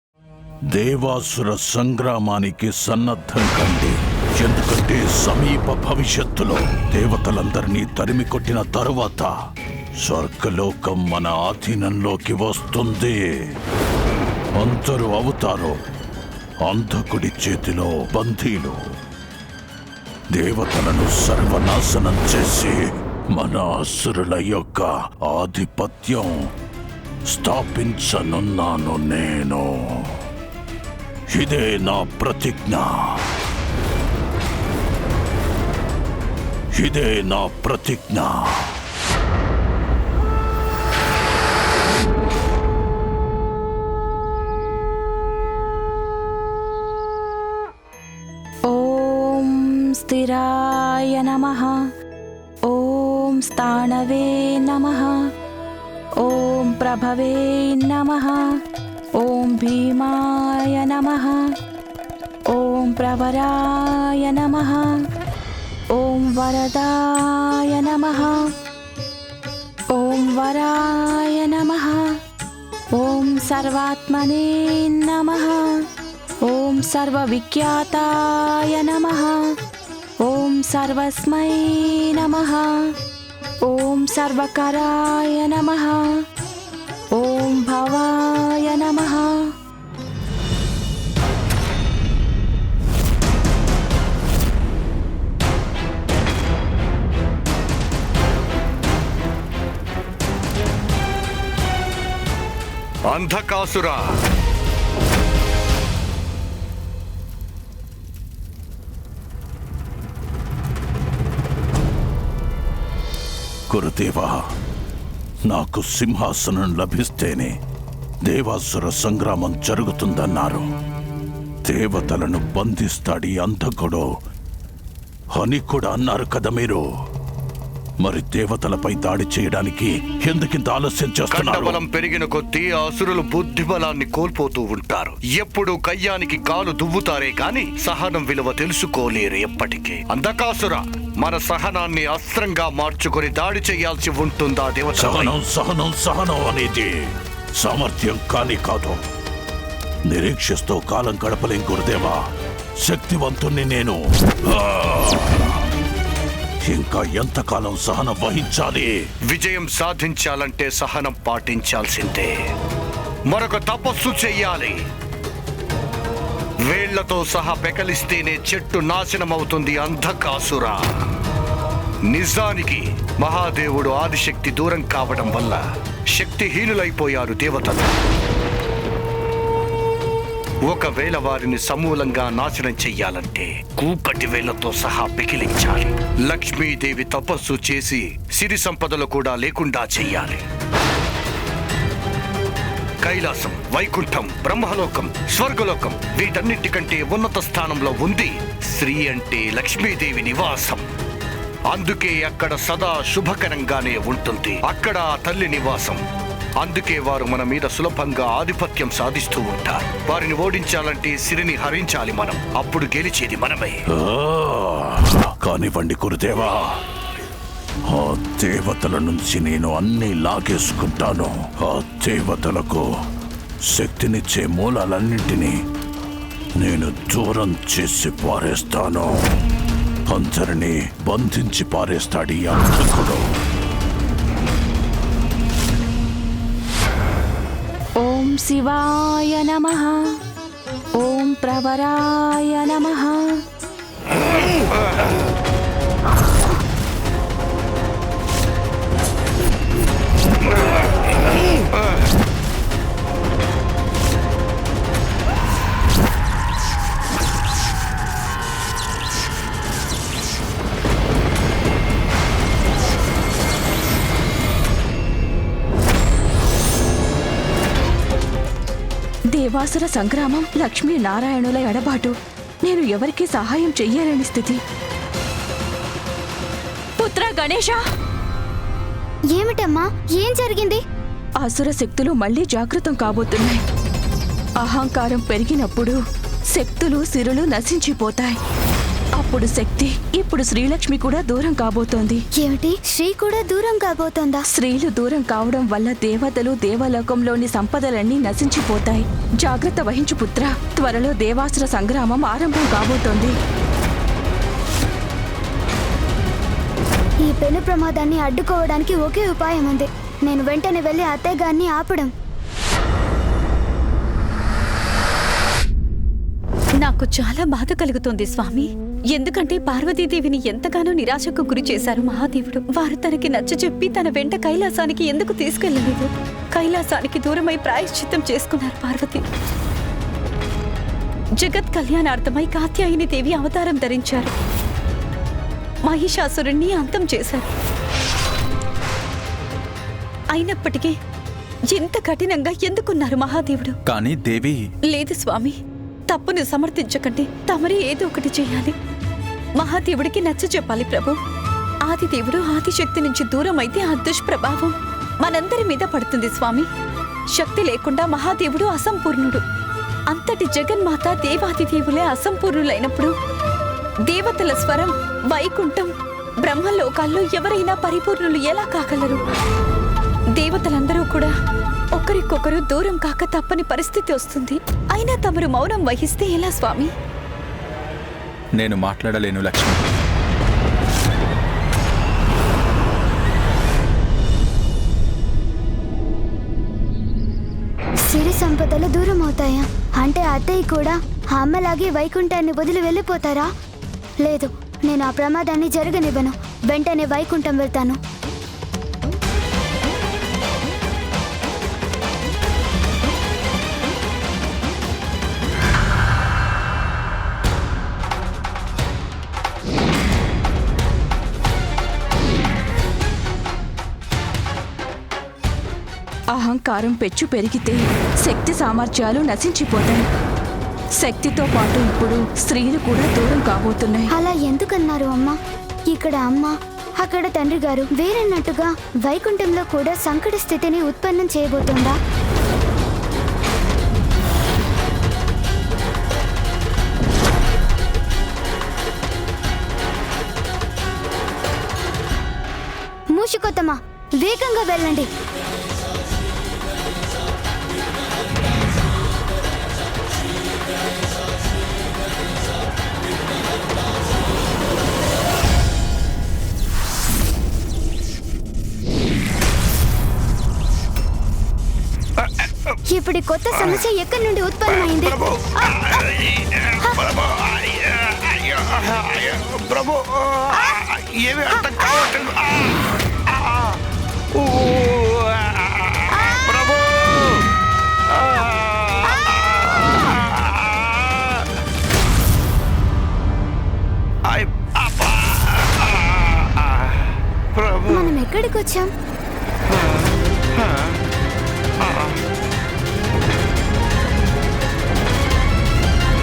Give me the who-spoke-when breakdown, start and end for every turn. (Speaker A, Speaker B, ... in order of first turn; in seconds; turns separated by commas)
Speaker A: 0.7-9.3, Speaker A: 10.0-13.6, Speaker A: 14.6-15.8, Speaker A: 16.6-18.8, Speaker A: 20.3-26.4, Speaker A: 27.3-30.2, Speaker A: 31.3-33.3, Speaker A: 36.7-38.8, Speaker B: 48.7-51.9, Speaker B: 52.7-55.3, Speaker B: 56.2-58.6, Speaker B: 59.2-61.5, Speaker B: 62.5-65.0, Speaker B: 65.9-68.4, Speaker B: 69.9-72.2, Speaker B: 72.9-75.7, Speaker B: 76.4-79.5, Speaker B: 80.2-82.9, Speaker B: 83.6-86.2, Speaker B: 87.1-89.5, Speaker C: 103.1-104.1, Speaker A: 113.7-114.4, Speaker A: 115.5-117.5, Speaker A: 118.2-120.7, Speaker A: 121.6-124.1, Speaker A: 125.3-126.8, Speaker A: 128.0-131.8, Speaker C: 131.3-145.3, Speaker A: 144.9-149.0, Speaker A: 150.1-152.3, Speaker A: 152.8-155.7, Speaker A: 156.6-159.0, Speaker C: 159.3-162.3, Speaker C: 163.3-164.8, Speaker C: 166.7-170.8, Speaker C: 172.1-177.9, Speaker C: 180.6-190.4, Speaker C: 193.0-200.9, Speaker C: 201.7-206.0, Speaker C: 206.6-213.8, Speaker A: 213.9-216.8, Speaker A: 217.9-222.9, Speaker A: 223.6-225.6, Speaker A: 226.6-229.3, Speaker A: 230.1-233.3, Speaker B: 238.0-240.0, Speaker B: 241.0-243.4, Speaker B: 269.3-274.6, Speaker B: 277.0-277.8, Speaker D: 279.3-280.8, Speaker B: 281.4-283.6, Speaker B: 284.6-286.0, Speaker B: 286.5-288.4, Speaker B: 289.2-292.2, Speaker D: 292.4-294.4, Speaker B: 294.5-303.4, Speaker D: 307.2-312.1, Speaker E: 316.8-329.2, Speaker E: 331.4-334.3, Speaker E: 335.8-337.5, Speaker E: 340.3-340.9, Speaker E: 341.7-343.8, Speaker F: 343.9-344.6, Speaker E: 344.9-345.6, Speaker E: 346.1-348.7, Speaker E: 349.6-351.2, Speaker E: 351.8-356.7, Speaker E: 357.3-359.4, Speaker E: 360.1-363.1, Speaker E: 364.1-365.9, Speaker E: 366.4-369.2, Speaker E: 370.4-371.3, Speaker E: 371.9-376.9, Speaker F: 378.6-379.9, Speaker D: 388.1-393.5, Speaker D: 394.2-398.0, Speaker B: 416.3-420.0, Speaker B: 421.0-424.1, Speaker D: 424.1-425.4, Speaker D: 425.9-431.9, Speaker D: 443.1-445.1, Speaker C: 462.2-462.7, Speaker D: 462.9-465.2, Speaker C: 464.7-473.7, Speaker D: 471.5-471.9, Speaker C: 474.4-477.4, Speaker D: 476.1-476.7, Speaker C: 478.1-481.3, Speaker C: 484.3-486.9, Speaker C: 487.5-488.1, Speaker D: 487.9-488.9, Speaker C: 490.6-490.9, Speaker C: 491.8-492.1